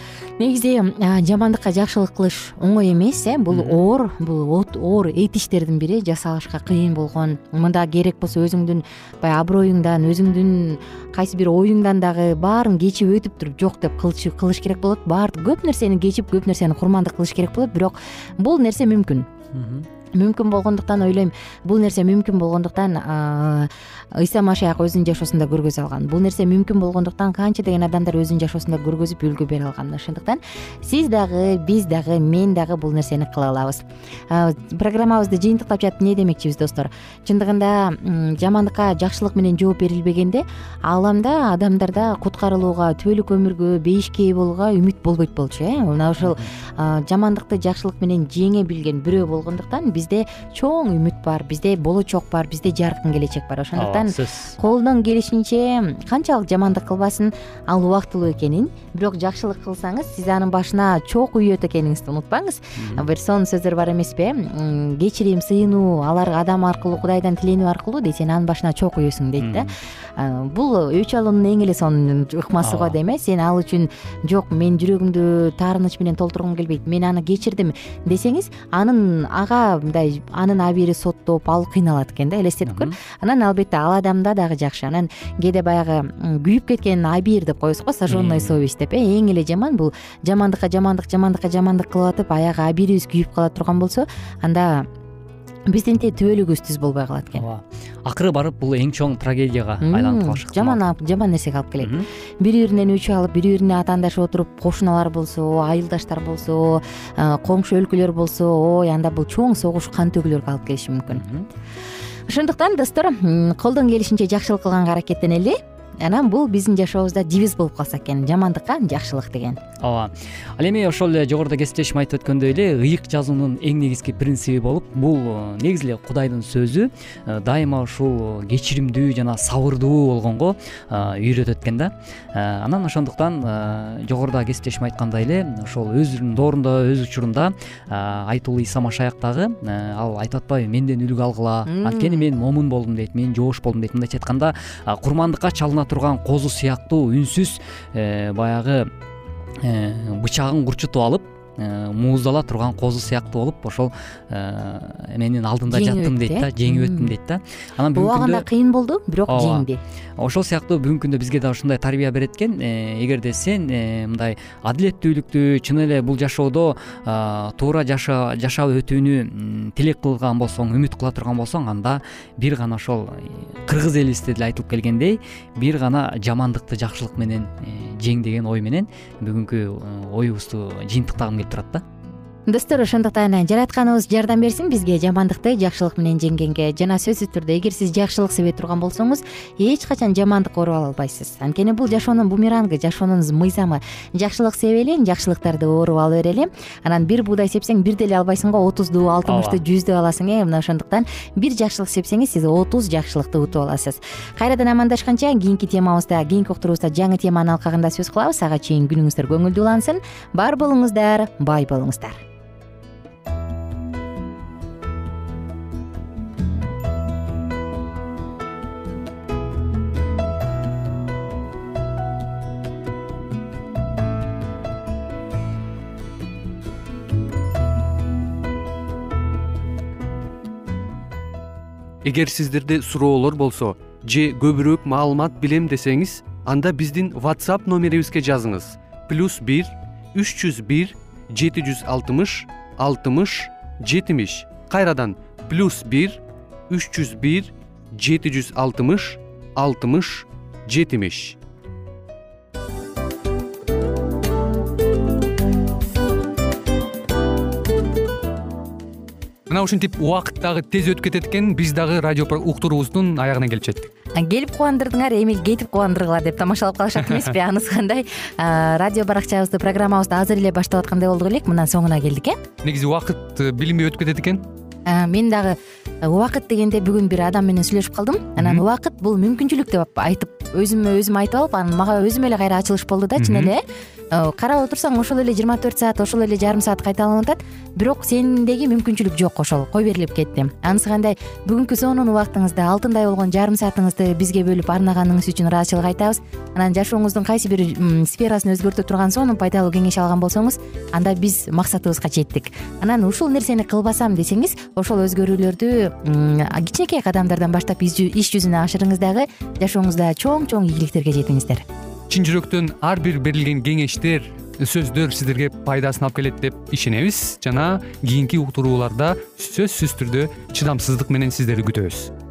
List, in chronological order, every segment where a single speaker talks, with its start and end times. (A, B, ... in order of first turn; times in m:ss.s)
0:00.4-0:19.3 A
0:03.5-0:03.8 B
0:19.5-0:19.8 B
0:20.1-1:34.8 A
0:46.2-0:46.5 B
0:53.8-0:54.6 B
1:02.8-1:03.0 B
1:09.4-1:09.7 B
1:12.6-1:13.0 B
1:22.6-1:22.9 B
1:28.1-1:28.6 B
1:35.7-1:37.4 A
1:37.3-1:40.8 B
1:39.8-1:51.2 A
1:41.8-1:42.0 B
1:51.1-1:51.5 B
1:52.3-1:59.6 A
1:59.8-2:28.9 B
2:21.7-2:22.3 A
2:29.6-2:38.4 B
2:35.7-2:37.1 A
2:37.9-2:39.8 A
2:39.3-2:39.7 B
2:40.2-3:01.8 B
3:02.5-3:32.2 A
3:19.2-3:19.6 B
3:52.0-4:11.4 C
4:19.5-4:23.9 C
4:24.2-4:32.4 A
4:32.6-4:34.5 C
4:34.8-5:11.6 A
4:43.2-4:43.5 C
5:12.1-5:22.1 C